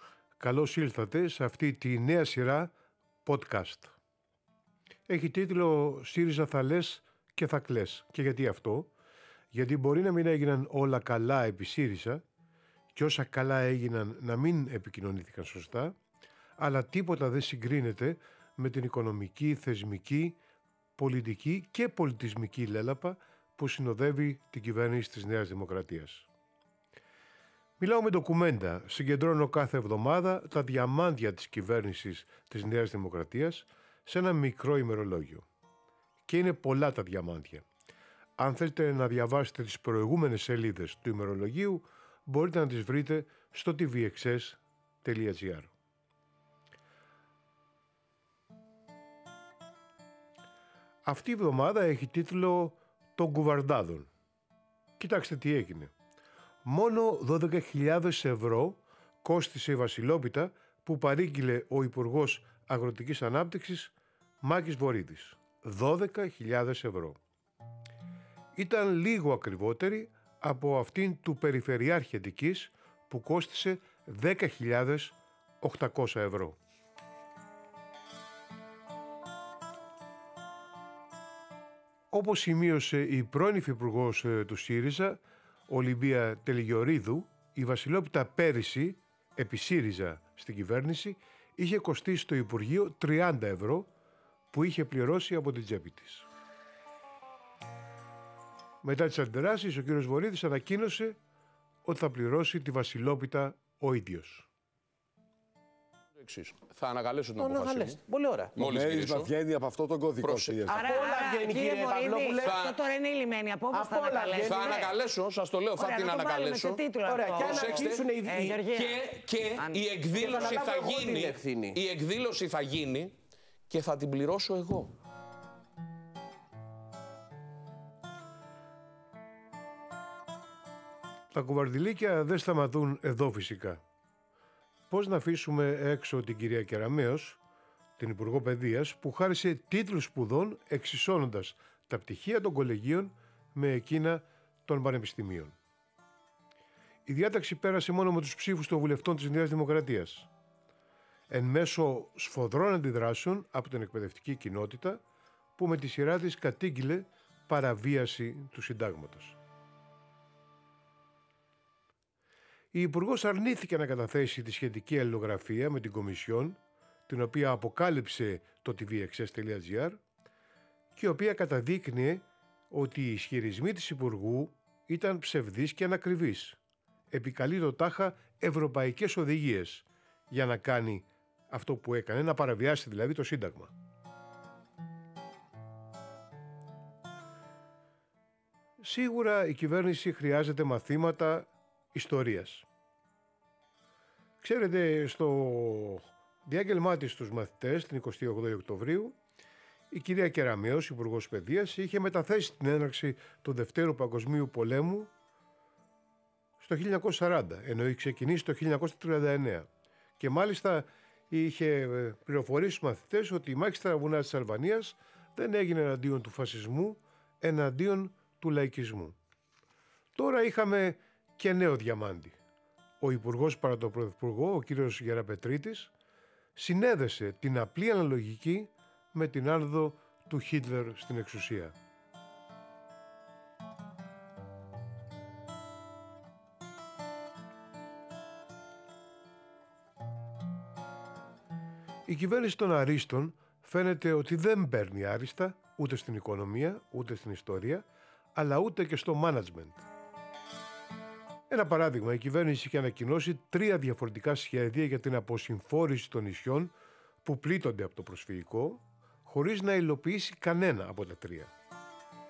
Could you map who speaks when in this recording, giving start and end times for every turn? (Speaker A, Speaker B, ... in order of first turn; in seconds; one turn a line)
Speaker A: 0.4-2.7
Speaker A: 3.2-3.9
Speaker A: 5.1-8.9
Speaker A: 9.5-12.2
Speaker A: 12.9-15.9
Speaker A: 16.6-20.4
Speaker A: 21.0-26.3
Speaker A: 27.8-35.5
Speaker A: 36.3-37.6
Speaker A: 38.4-45.7
Speaker A: 51.0-54.1
Speaker A: 55.0-55.9
Speaker A: 56.6-67.2
Speaker A: 68.6-76.6
Speaker A: 82.1-93.9
Speaker A: 94.5-96.3
Speaker A: 98.8-101.2
Speaker A: 101.8-104.5
Speaker B: 106.2-108.0
Speaker C: 107.4-107.7
Speaker D: 107.4-108.6
Speaker C: 108.5-111.0
Speaker B: 108.6-109.2
Speaker D: 110.5-112.6
Speaker E: 110.7-115.0
Speaker D: 113.7-115.4
Speaker B: 114.5-116.8
Speaker E: 115.7-120.5
Speaker D: 117.0-118.6
Speaker B: 117.5-118.0
Speaker B: 118.7-123.2
Speaker D: 120.1-121.8
Speaker B: 123.7-124.9
Speaker A: 131.3-133.8
Speaker A: 134.9-137.4
Speaker A: 138.0-145.6
Speaker A: 147.1-150.3
Speaker A: 151.3-155.0
Speaker A: 155.6-159.4
Speaker A: 162.7-170.0
Speaker A: 170.9-176.6
Speaker A: 177.1-183.7
Speaker A: 188.8-192.7
Speaker A: 194.4-199.2
Speaker A: 199.9-205.1
Speaker A: 206.6-209.7
Speaker A: 210.2-219.2
Speaker A: 220.2-222.4
Speaker A: 223.0-225.9
Speaker A: 226.6-231.8
Speaker A: 242.1-247.8
Speaker A: 248.3-249.9
Speaker A: 251.5-256.7
Speaker A: 257.2-261.5